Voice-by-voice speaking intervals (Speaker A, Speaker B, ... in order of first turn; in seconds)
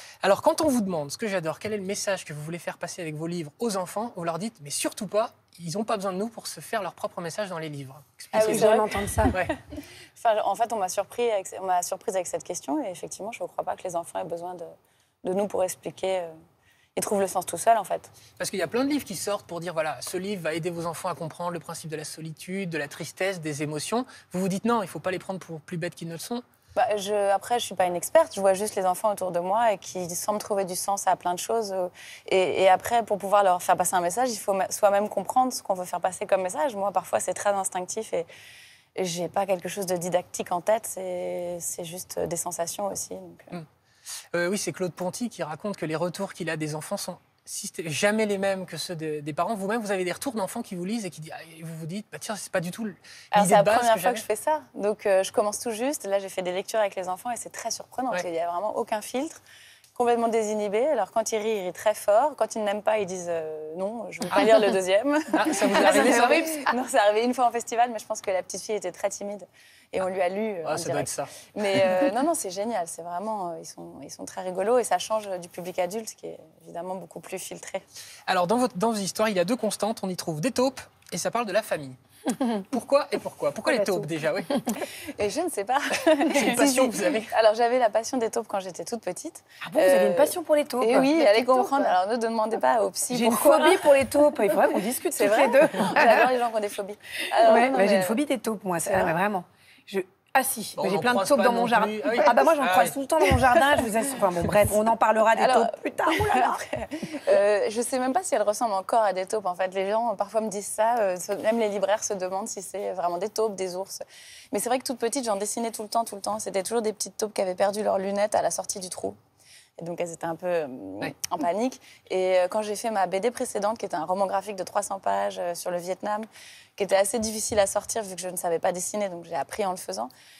Speaker A: 0.2-8.7, 18.4-26.4, 44.3-54.2, 64.3-64.8, 65.3-66.5, 70.6-71.9, 78.3-82.0, 82.5-84.5, 86.3-87.3, 100.8-103.0
Speaker B: 8.3-9.5, 10.2-14.7, 15.2-16.3, 17.0-18.1, 26.8-38.3, 39.0-43.6, 53.3-59.4, 60.0-77.8, 84.7-93.9, 95.1-98.2, 98.8-99.2, 105.4-119.2, 119.8-130.1
Speaker C: 8.3-9.3, 65.8-66.7, 83.7-84.0, 89.6-91.9, 93.1-96.3, 97.4-106.6